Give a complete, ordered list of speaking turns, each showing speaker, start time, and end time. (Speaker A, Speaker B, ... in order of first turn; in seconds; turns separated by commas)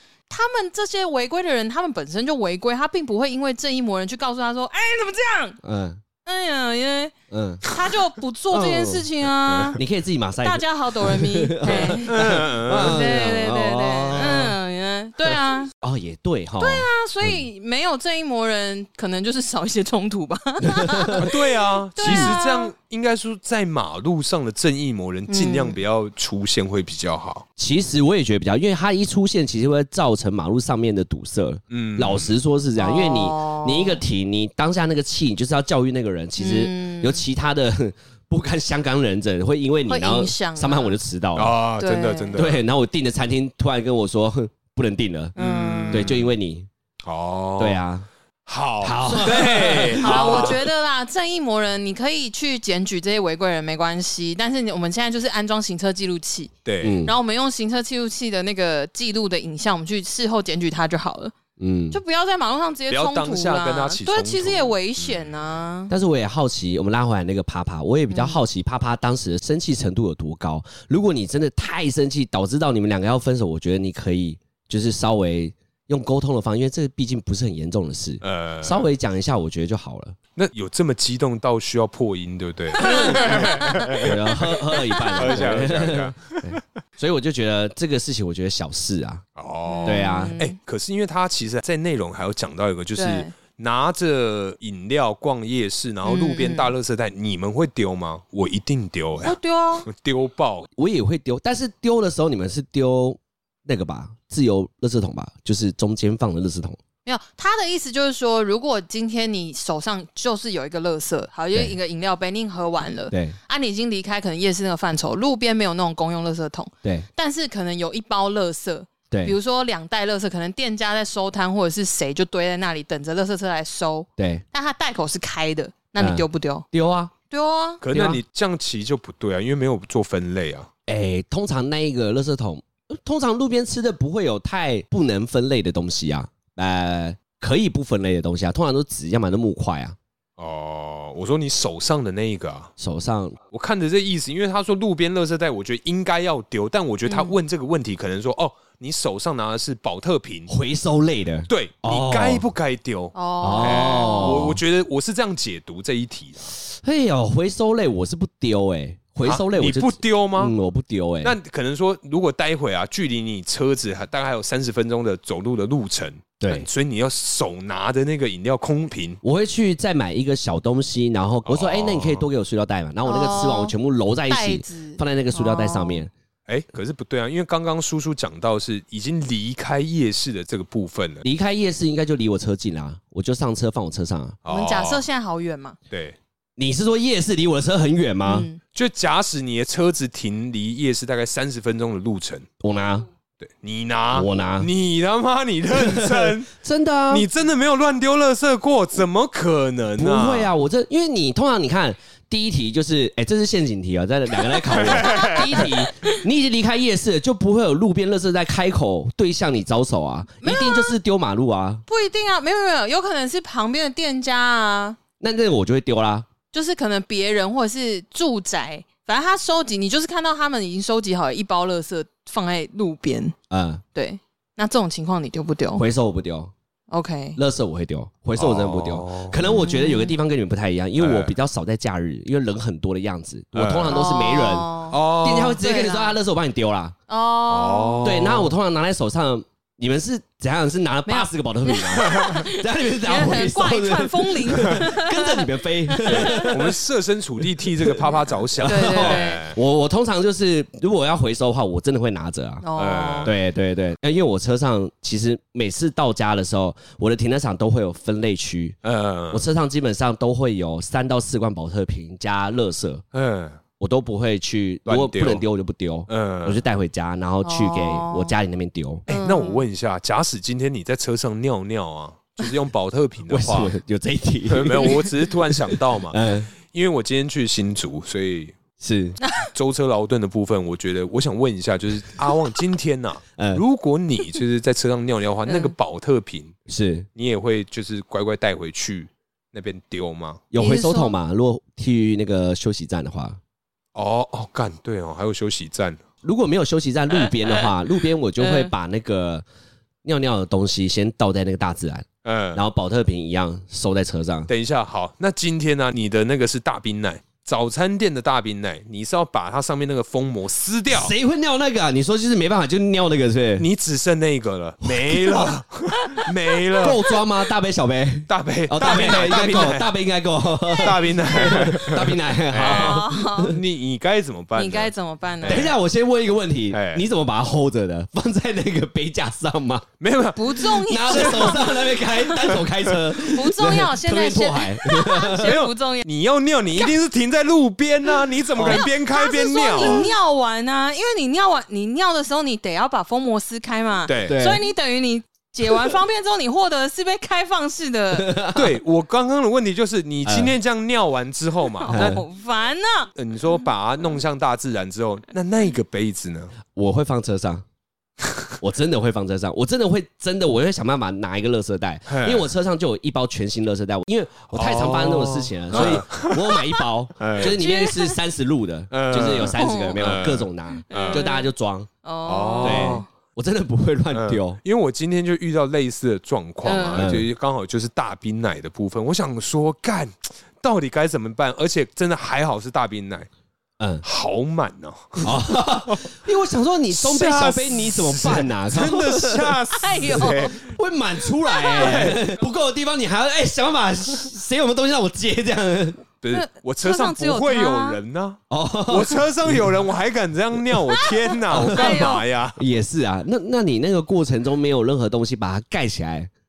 Speaker A: 0.3-5.6, Speaker B: 5.6-6.0, Speaker A: 6.2-7.1, Speaker B: 7.3-7.6, Speaker A: 7.7-9.8, Speaker B: 8.5-9.1, Speaker B: 9.8-14.6, Speaker A: 10.4-15.7, Speaker C: 11.7-13.0, Speaker B: 15.8-17.4, Speaker A: 16.6-22.7, Speaker B: 20.6-21.3, Speaker C: 21.2-27.4, Speaker B: 22.0-22.4, Speaker A: 25.3-25.8, Speaker B: 27.6-41.6, Speaker C: 31.7-32.3, Speaker A: 32.8-34.0, Speaker A: 36.4-37.2, Speaker A: 39.9-41.0, Speaker C: 41.4-42.6, Speaker A: 41.8-42.4, Speaker B: 42.3-45.4, Speaker A: 45.4-46.1, Speaker C: 45.4-46.3, Speaker B: 45.9-46.7, Speaker C: 47.0-47.8, Speaker B: 47.6-48.1, Speaker C: 48.5-50.6, Speaker B: 48.8-50.6, Speaker A: 49.1-56.5, Speaker C: 56.6-57.0, Speaker B: 56.8-57.1, Speaker A: 57.0-61.3, Speaker B: 61.6-62.0, Speaker A: 61.9-65.9, Speaker C: 62.9-65.2, Speaker B: 65.9-80.2, Speaker A: 68.1-68.4, Speaker C: 78.2-78.9, Speaker C: 80.4-84.5, Speaker A: 82.8-84.1, Speaker B: 82.9-89.2, Speaker A: 84.7-85.5, Speaker C: 85.1-86.6, Speaker C: 89.4-100.7, Speaker A: 89.7-90.6, Speaker B: 89.8-90.3, Speaker A: 93.0-93.3, Speaker A: 96.0-96.7, Speaker A: 99.2-99.9, Speaker B: 100.8-106.8, Speaker A: 107.0-126.7, Speaker B: 113.1-113.4, Speaker B: 124.2-124.4, Speaker B: 126.0-127.1, Speaker A: 127.3-127.8, Speaker C: 127.8-130.7, Speaker B: 127.9-128.2, Speaker B: 130.9-140.0, Speaker C: 140.4-142.7, Speaker B: 142.8-143.4, Speaker C: 143.5-150.5, Speaker A: 147.1-147.3, Speaker B: 150.5-152.4, Speaker C: 151.5-156.5, Speaker A: 153.1-154.5, Speaker B: 153.4-154.6, Speaker B: 156.7-161.4, Speaker C: 159.2-160.5, Speaker C: 161.2-169.2, Speaker B: 166.4-166.7, Speaker B: 169.2-176.1, Speaker C: 171.5-172.3, Speaker A: 173.0-173.7, Speaker A: 174.3-176.0, Speaker C: 176.5-181.2, Speaker B: 181.2-184.4, Speaker C: 184.4-185.0, Speaker A: 184.5-185.8, Speaker C: 185.9-186.2, Speaker B: 186.6-188.5, Speaker A: 188.2-188.6, Speaker C: 188.7-192.5, Speaker B: 192.6-193.1, Speaker C: 193.4-196.5, Speaker B: 194.1-194.7, Speaker B: 195.7-197.3, Speaker C: 197.1-200.5, Speaker B: 200.0-211.8, Speaker A: 204.4-206.2, Speaker C: 204.7-205.7, Speaker A: 210.4-211.0, Speaker A: 211.9-215.0, Speaker B: 215.2-216.3, Speaker A: 216.5-223.3, Speaker B: 223.5-223.8, Speaker A: 223.9-225.8, Speaker B: 225.8-226.5, Speaker A: 226.9-227.4, Speaker B: 227.4-237.0, Speaker C: 228.4-229.4, Speaker A: 229.4-230.2, Speaker C: 231.0-231.3, Speaker C: 233.5-234.1, Speaker A: 233.9-235.0, Speaker C: 234.9-235.6, Speaker A: 235.6-236.2, Speaker A: 237.1-238.2, Speaker C: 237.5-238.6, Speaker B: 238.0-246.8, Speaker A: 241.1-246.7, Speaker C: 242.1-242.4, Speaker C: 246.1-249.6, Speaker B: 247.7-252.7, Speaker A: 248.6-249.5, Speaker A: 252.6-253.3, Speaker C: 252.8-253.3, Speaker B: 253.2-258.8, Speaker C: 258.8-259.4, Speaker B: 259.3-263.0, Speaker C: 263.1-263.6, Speaker B: 263.8-269.1, Speaker C: 264.9-265.4, Speaker C: 266.1-266.6, Speaker A: 267.4-268.4, Speaker C: 269.1-273.7, Speaker A: 269.1-269.6, Speaker B: 273.3-276.5, Speaker C: 274.5-278.6, Speaker B: 278.8-279.2, Speaker A: 279.2-279.5, Speaker C: 279.4-286.6, Speaker B: 283.4-283.6, Speaker A: 285.5-285.7, Speaker B: 286.7-287.1, Speaker C: 287.2-290.4, Speaker B: 290.5-293.4, Speaker A: 290.6-291.2, Speaker C: 293.9-296.0, Speaker B: 296.2-299.5, Speaker A: 297.4-297.7, Speaker A: 298.4-298.7, Speaker B: 300.1-304.5, Speaker C: 302.2-302.6, Speaker C: 304.5-311.1, Speaker B: 310.9-313.7, Speaker C: 313.6-317.0, Speaker B: 314.9-315.5, Speaker A: 316.0-317.1, Speaker B: 316.8-323.6, Speaker C: 318.3-319.9, Speaker A: 320.6-320.9, Speaker C: 320.8-325.8, Speaker A: 322.6-323.5, Speaker A: 324.6-325.7, Speaker B: 325.4-329.9, Speaker C: 326.7-327.0, Speaker C: 330.0-331.8, Speaker A: 330.4-332.6, Speaker B: 330.8-335.6, Speaker A: 333.2-336.1, Speaker C: 335.4-340.1, Speaker B: 338.6-338.8, Speaker A: 338.6-348.4, Speaker B: 339.8-340.1, Speaker C: 344.1-344.4, Speaker B: 344.2-344.6, Speaker B: 348.1-348.8, Speaker C: 348.5-352.2, Speaker B: 350.3-350.6, Speaker A: 351.8-353.1, Speaker B: 351.9-352.2, Speaker C: 353.2-356.6, Speaker B: 356.7-357.6, Speaker B: 358.6-371.9, Speaker C: 362.1-362.5, Speaker C: 364.5-366.5, Speaker C: 367.2-367.6, Speaker A: 367.4-368.2, Speaker C: 368.9-371.2, Speaker A: 369.4-370.0, Speaker A: 370.9-371.5, Speaker A: 372.0-373.1, Speaker C: 372.3-373.1, Speaker B: 372.6-374.6, Speaker C: 374.1-383.3, Speaker A: 376.6-377.1, Speaker B: 376.9-377.3, Speaker B: 383.8-384.0, Speaker C: 384.0-386.1, Speaker B: 385.2-389.6, Speaker C: 386.9-390.6, Speaker A: 389.7-390.6, Speaker B: 390.1-396.1, Speaker A: 391.4-392.1, Speaker C: 391.7-392.3, Speaker C: 396.2-402.6, Speaker A: 396.3-398.0, Speaker B: 398.5-399.7, Speaker A: 401.0-402.2, Speaker B: 401.5-406.3